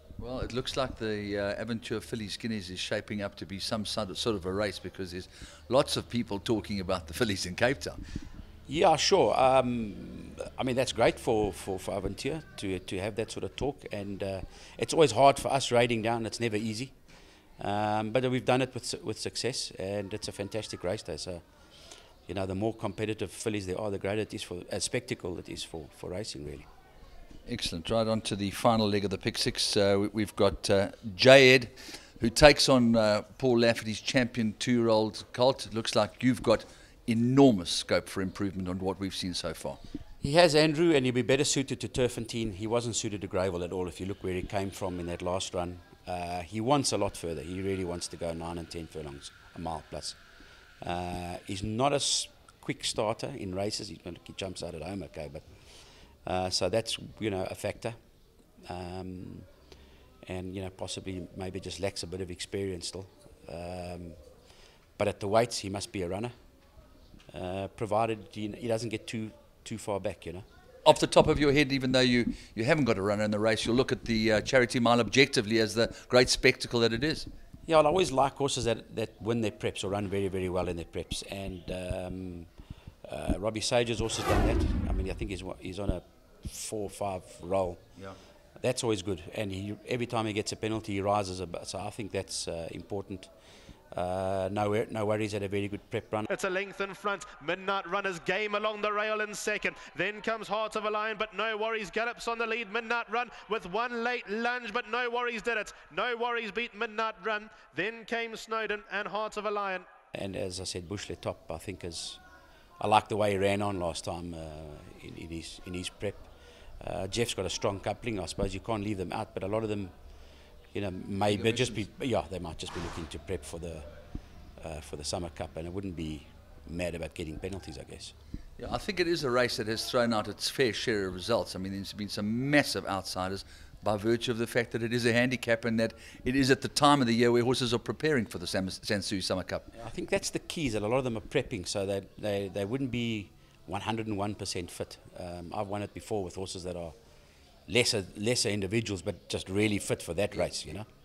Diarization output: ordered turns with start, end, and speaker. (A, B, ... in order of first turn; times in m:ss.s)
0:00.2-0:08.0 A
0:08.7-0:16.9 B
0:17.6-0:21.4 B
0:22.3-0:26.7 B
0:27.5-0:39.8 A
0:40.2-0:50.2 B
0:50.8-0:55.5 B
0:56.2-0:58.0 B
0:58.6-0:59.5 B
1:00.2-1:04.2 B
1:05.0-1:06.3 B
1:07.3-1:10.4 B
1:10.8-1:17.3 A
1:17.7-1:22.5 B
1:23.0-1:27.8 B
1:28.6-1:33.3 B
1:33.9-1:36.3 B
1:36.3-1:49.8 C
1:50.1-1:52.2 B
1:52.8-1:56.3 B
1:56.8-1:59.9 B
2:00.7-2:03.8 B
2:01.3-2:01.8 A
2:04.6-2:08.1 B
2:08.6-2:19.7 A
2:19.7-2:26.9 B
2:27.7-2:30.9 B